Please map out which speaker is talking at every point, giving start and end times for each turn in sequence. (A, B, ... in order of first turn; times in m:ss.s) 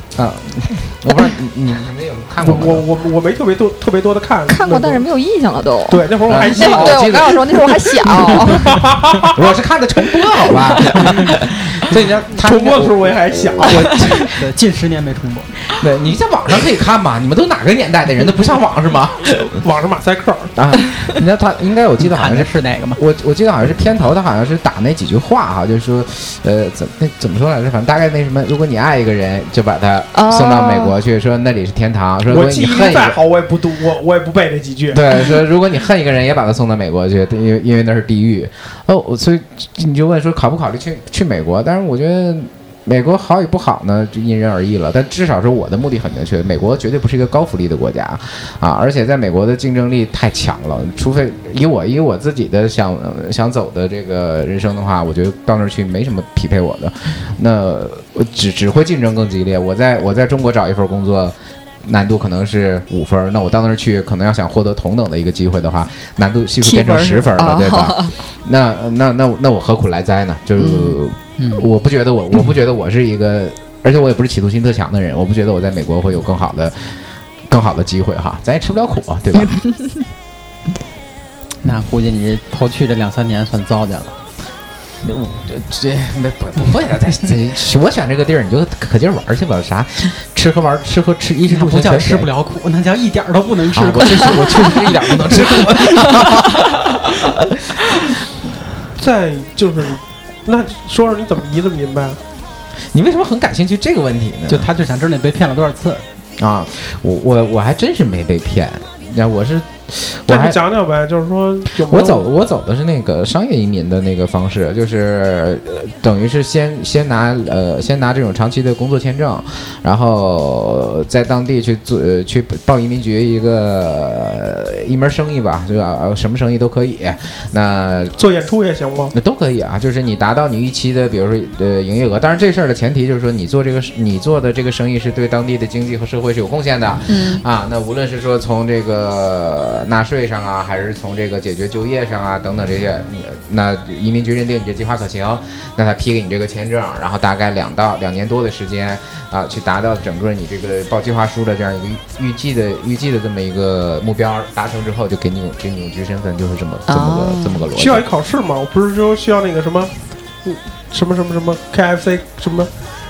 0:00.2-0:02.9 A
0:02.4-0:05.0 B
0:04.5-0:08.7 C
0:05.9-0:07.2 B
0:06.3-0:08.7 A
0:08.4-0:09.5 B
0:09.2-0:14.5 A
0:11.0-0:11.4 D
0:12.4-0:13.9 B
0:13.7-0:15.5 D
0:15.7-0:19.6 A
0:19.6-0:20.5 B
0:20.6-0:33.2 A
0:22.0-0:23.0 D
0:30.1-0:30.9 C
0:32.3-0:35.0 B
0:34.9-1:19.6 A
1:06.6-1:08.1 C
1:10.6-1:11.0 C
1:11.4-1:11.7 D
1:21.6-1:24.2 D
1:25.0-1:32.3 A
1:31.5-1:36.4 D
1:33.7-1:37.2 A
1:39.0-1:42.2 B
1:42.9-1:44.7 A
1:44.5-1:46.0 D
1:46.4-1:50.6 A
1:50.3-1:52.2 B
1:51.7-2:08.2 A
2:08.2-2:09.1 B
2:09.1-2:38.1 A
2:17.1-2:17.4 C
2:36.9-2:37.6 C
2:37.7-2:39.9 B
2:40.4-2:42.7 B